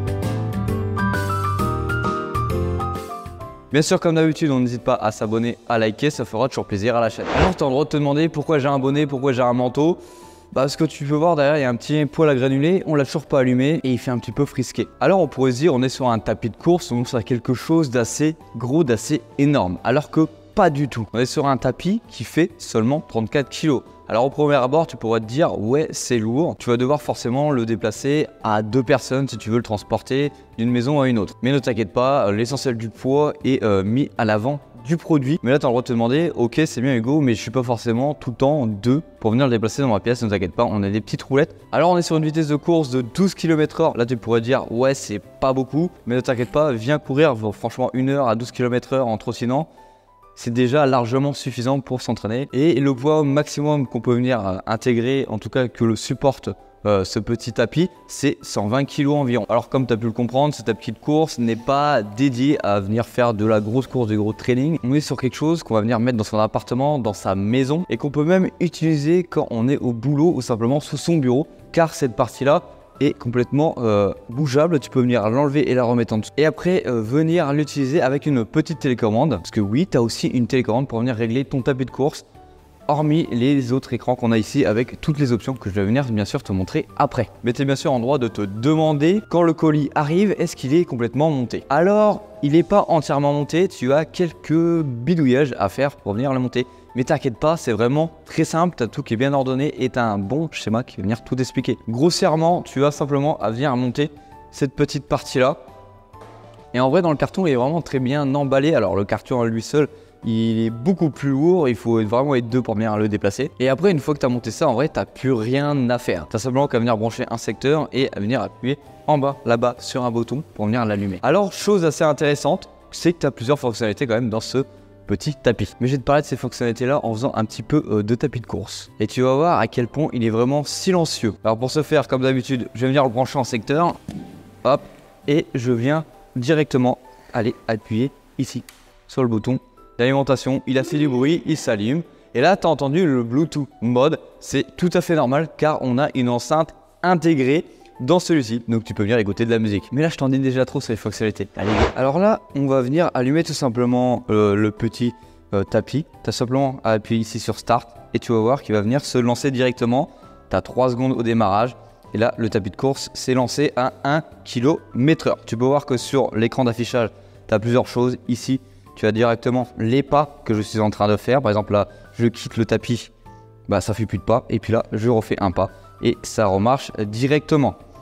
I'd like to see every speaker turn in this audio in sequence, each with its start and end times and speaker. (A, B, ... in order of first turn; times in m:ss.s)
0:03.7-0:10.0 A
0:10.5-0:49.7 A
0:50.3-1:22.2 A
1:22.9-1:45.6 A
1:46.7-2:14.0 A
2:14.6-2:53.1 A
2:53.7-2:57.8 A